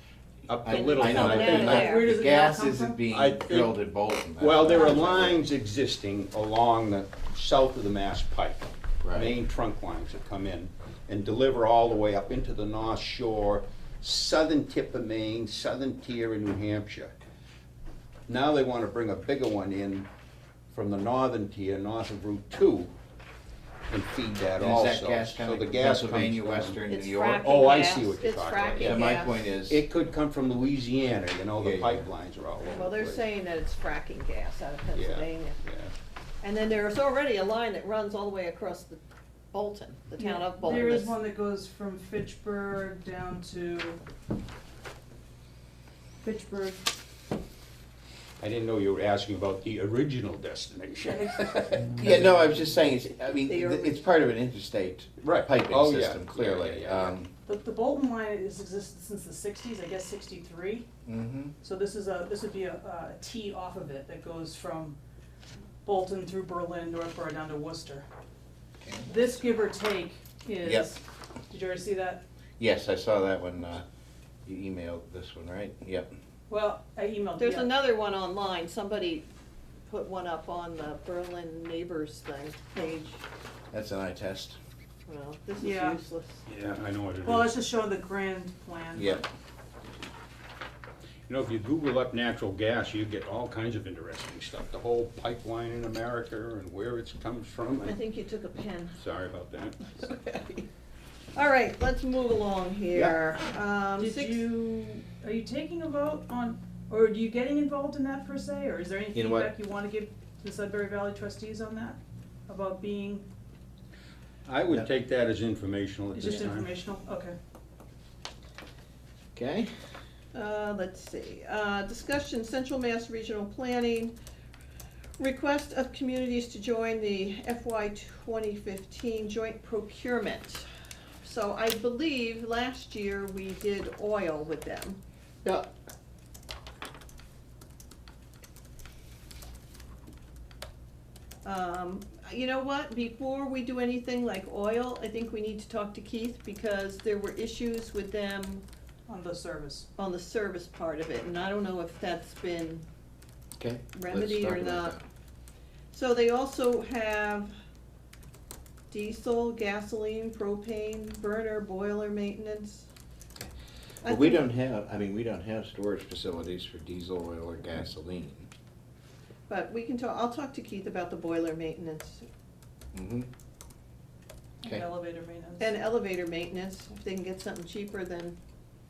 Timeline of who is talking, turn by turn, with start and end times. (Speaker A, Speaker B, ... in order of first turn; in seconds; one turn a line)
Speaker A: 0.5-1.9
Speaker B: 0.6-5.4
Speaker C: 0.7-2.1
Speaker D: 1.6-3.0
Speaker A: 3.1-3.7
Speaker A: 4.4-17.1
Speaker B: 9.0-9.3
Speaker A: 18.3-20.1
Speaker A: 20.7-22.9
Speaker A: 23.9-26.8
Speaker B: 24.6-27.6
Speaker C: 26.9-29.4
Speaker A: 27.4-33.2
Speaker B: 28.8-29.8
Speaker B: 31.6-32.0
Speaker C: 32.7-35.6
Speaker A: 34.9-35.9
Speaker C: 36.4-39.0
Speaker C: 39.5-41.1
Speaker D: 40.2-44.0
Speaker D: 46.2-46.8
Speaker A: 48.4-52.2
Speaker D: 51.0-51.8
Speaker B: 52.0-57.3
Speaker C: 53.5-54.0
Speaker A: 55.2-57.2
Speaker D: 57.5-60.9
Speaker B: 61.0-61.5
Speaker D: 61.6-65.0
Speaker D: 65.8-68.0
Speaker B: 68.8-69.1
Speaker D: 69.0-72.2
Speaker B: 70.6-70.9
Speaker B: 72.6-73.8
Speaker B: 74.4-76.1
Speaker D: 76.5-77.7
Speaker C: 77.4-79.2
Speaker C: 79.9-83.2
Speaker B: 83.7-84.6
Speaker C: 85.1-86.4
Speaker D: 85.6-86.0
Speaker A: 86.5-87.5
Speaker D: 87.2-89.2
Speaker B: 88.9-89.2
Speaker A: 91.3-98.0
Speaker C: 97.8-99.0
Speaker A: 99.0-100.0
Speaker C: 100.0-100.6
Speaker C: 101.3-104.5
Speaker B: 102.9-103.2
Speaker D: 104.0-113.2
Speaker B: 109.1-109.5
Speaker A: 114.5-116.7
Speaker D: 116.1-117.3
Speaker B: 119.3-119.7
Speaker C: 120.3-124.1
Speaker C: 125.2-130.6
Speaker C: 131.2-135.0
Speaker C: 141.4-148.6
Speaker D: 149.1-149.9
Speaker C: 149.9-152.8
Speaker B: 153.6-155.0
Speaker C: 153.9-154.9
Speaker C: 155.9-157.5
Speaker C: 158.9-162.9
Speaker B: 164.0-168.5
Speaker C: 164.0-164.4
Speaker C: 169.5-172.2
Speaker B: 172.9-173.3
Speaker D: 174.6-175.8
Speaker C: 175.6-178.4